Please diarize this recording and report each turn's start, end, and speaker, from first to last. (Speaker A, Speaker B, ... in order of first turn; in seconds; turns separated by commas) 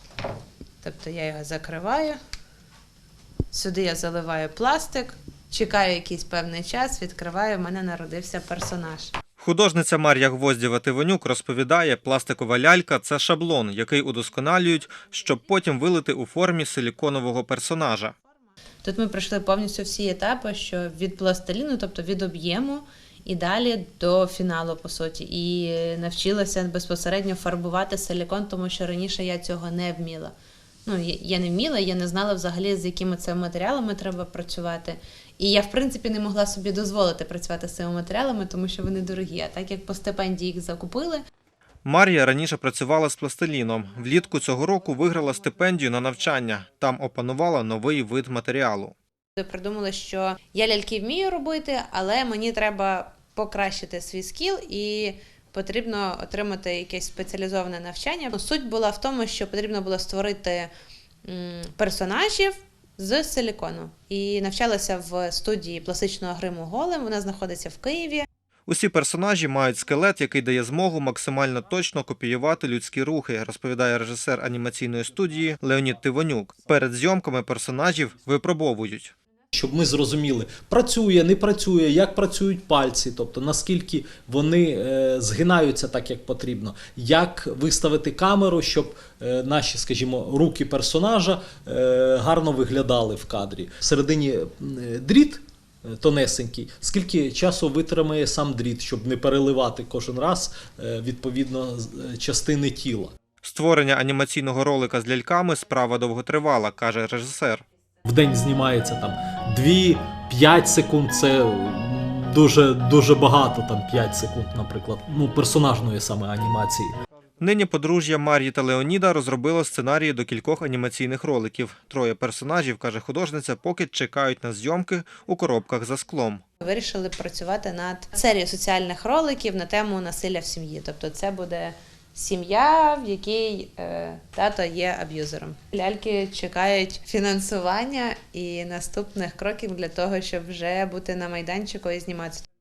Speaker A: 0.8-2.2, Speaker A: 3.5-9.1, Speaker B: 9.4-18.1, Speaker A: 18.8-30.3, Speaker A: 30.9-41.2, Speaker B: 41.8-49.0, Speaker A: 49.4-60.7, Speaker A: 61.2-68.3, Speaker B: 68.7-79.1, Speaker C: 79.5-103.1, Speaker B: 103.4-107.6, Speaker C: 108.0-117.0, Speaker B: 117.4-126.4, Speaker A: 126.6-142.4